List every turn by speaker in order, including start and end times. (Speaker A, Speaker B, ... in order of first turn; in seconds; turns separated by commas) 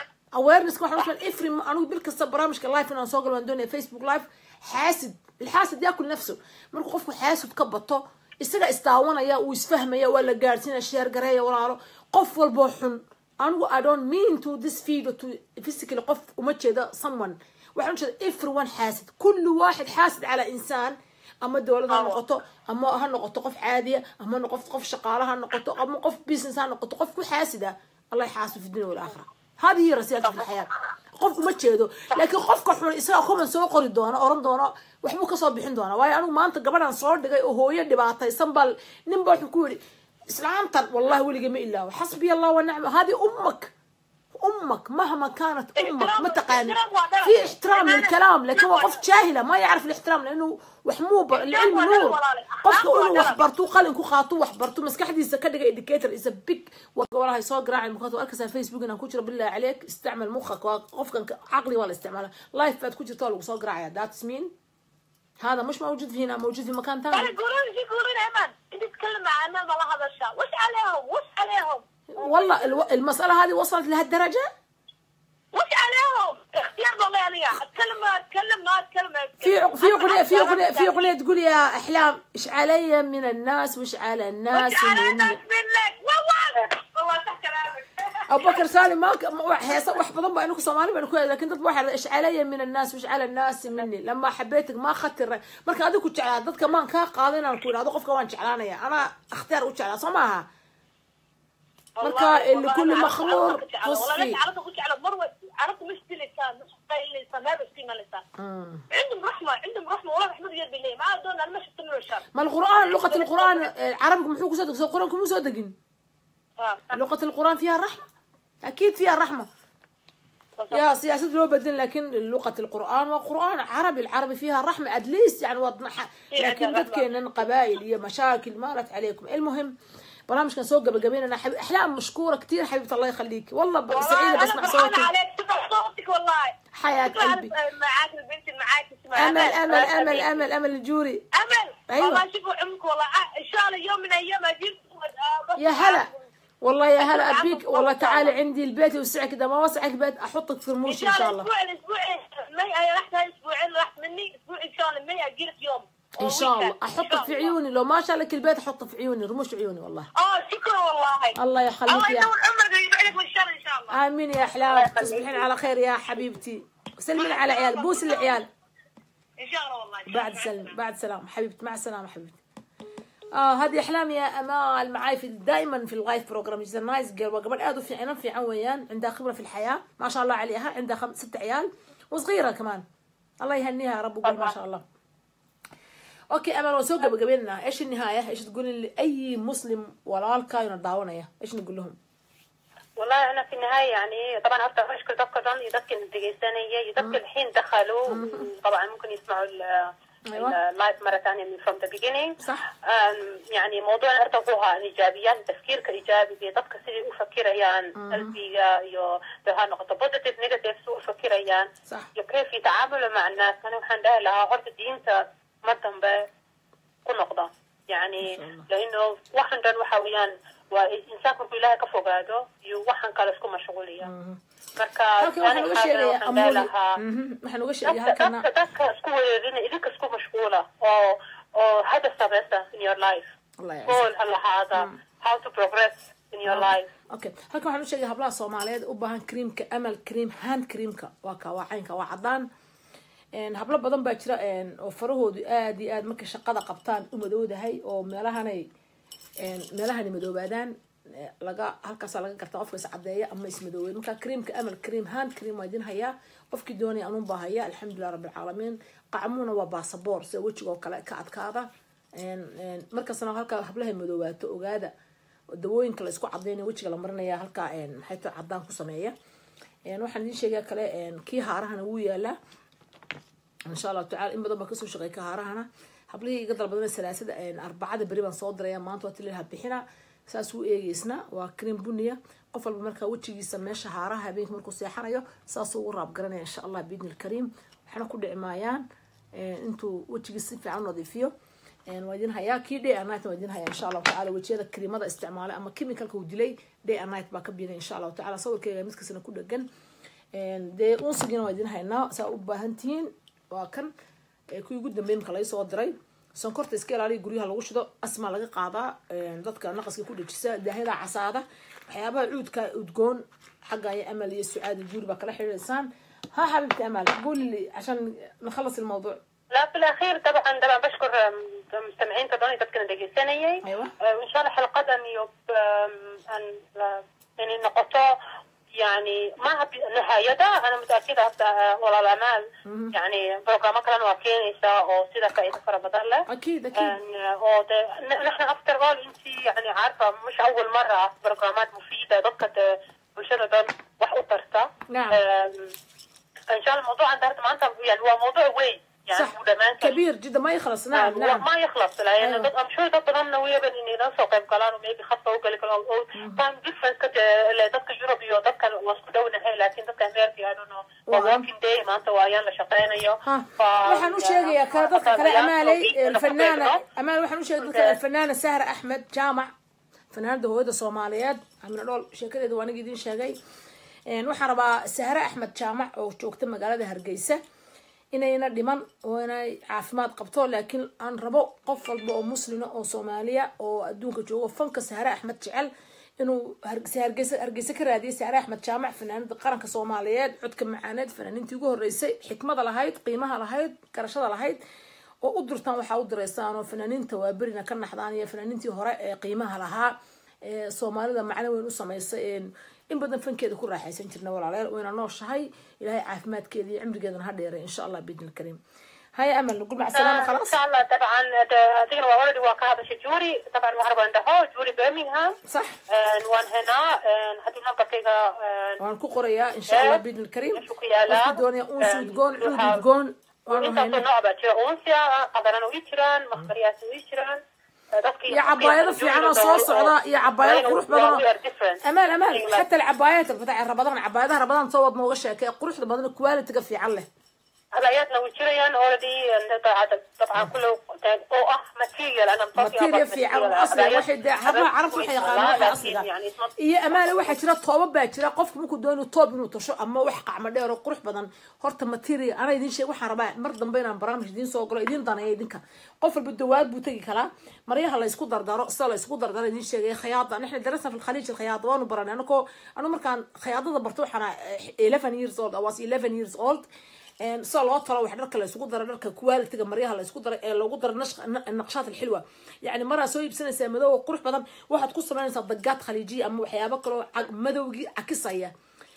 Speaker A: 0.3-43.7, Speaker B: 21.9-22.2, Speaker A: 44.4-64.5, Speaker C: 45.8-49.0, Speaker C: 51.3-53.4, Speaker A: 65.4-67.3, Speaker C: 67.1-72.9, Speaker A: 72.2-74.5, Speaker C: 75.5-81.2, Speaker A: 79.4-85.4, Speaker C: 84.5-88.7, Speaker A: 88.3-100.5, Speaker C: 102.0-108.2, Speaker A: 102.0-104.4, Speaker A: 108.4-108.8, Speaker C: 108.9-113.7, Speaker A: 112.3-115.8, Speaker C: 116.6-116.9, Speaker A: 116.9-118.0, Speaker A: 118.7-119.5, Speaker A: 120.7-129.7, Speaker C: 126.3-127.1, Speaker A: 130.3-135.1, Speaker C: 133.9-140.4, Speaker A: 136.8-137.5, Speaker A: 139.2-141.2, Speaker C: 141.3-146.2, Speaker A: 141.9-142.2, Speaker A: 145.6-146.1, Speaker A: 146.6-151.5, Speaker C: 147.0-148.3, Speaker C: 150.9-157.6, Speaker A: 156.2-160.1, Speaker C: 160.2-164.0, Speaker A: 161.4-162.3, Speaker A: 163.9-168.5, Speaker B: 164.7-165.4, Speaker C: 167.2-168.4, Speaker C: 169.4-170.8, Speaker A: 170.1-172.4, Speaker A: 173.3-182.8, Speaker A: 183.4-184.8, Speaker B: 184.2-184.5, Speaker A: 186.3-192.0, Speaker B: 193.0-216.3, Speaker A: 198.1-198.5, Speaker A: 200.3-200.6, Speaker A: 202.4-202.7, Speaker A: 208.0-208.3, Speaker B: 217.1-224.1, Speaker A: 218.2-218.7, Speaker A: 224.0-224.4, Speaker B: 224.8-227.0, Speaker A: 225.2-228.5, Speaker B: 227.9-233.3, Speaker A: 233.6-234.1, Speaker B: 233.9-236.9, Speaker A: 236.5-242.5, Speaker A: 243.3-248.7, Speaker A: 249.4-264.9, Speaker A: 265.5-269.1, Speaker A: 269.9-272.4, Speaker A: 273.7-291.3, Speaker A: 291.9-299.7, Speaker A: 300.4-303.9, Speaker A: 304.5-319.2, Speaker B: 319.5-328.1, Speaker A: 323.6-323.9, Speaker B: 328.8-345.7, Speaker A: 332.6-332.9, Speaker A: 336.3-337.0, Speaker A: 344.9-345.2, Speaker B: 346.5-350.0, Speaker A: 349.1-351.5, Speaker B: 350.9-366.8, Speaker A: 352.2-352.5, Speaker A: 356.2-356.4, Speaker A: 361.1-361.5, Speaker A: 363.2-369.5, Speaker B: 367.6-368.0, Speaker A: 370.1-373.4, Speaker A: 374.1-377.4, Speaker A: 378.1-394.6, Speaker A: 395.2-408.6, Speaker A: 409.1-410.6, Speaker B: 409.9-415.4, Speaker A: 415.5-415.8, Speaker B: 415.9-418.8, Speaker A: 418.8-424.1, Speaker B: 419.7-420.0, Speaker B: 420.6-422.8, Speaker B: 423.5-427.4, Speaker B: 428.0-432.6, Speaker A: 428.3-431.2, Speaker A: 431.8-437.1, Speaker B: 437.7-447.4, Speaker A: 442.6-446.1, Speaker A: 446.6-466.6, Speaker A: 467.2-478.5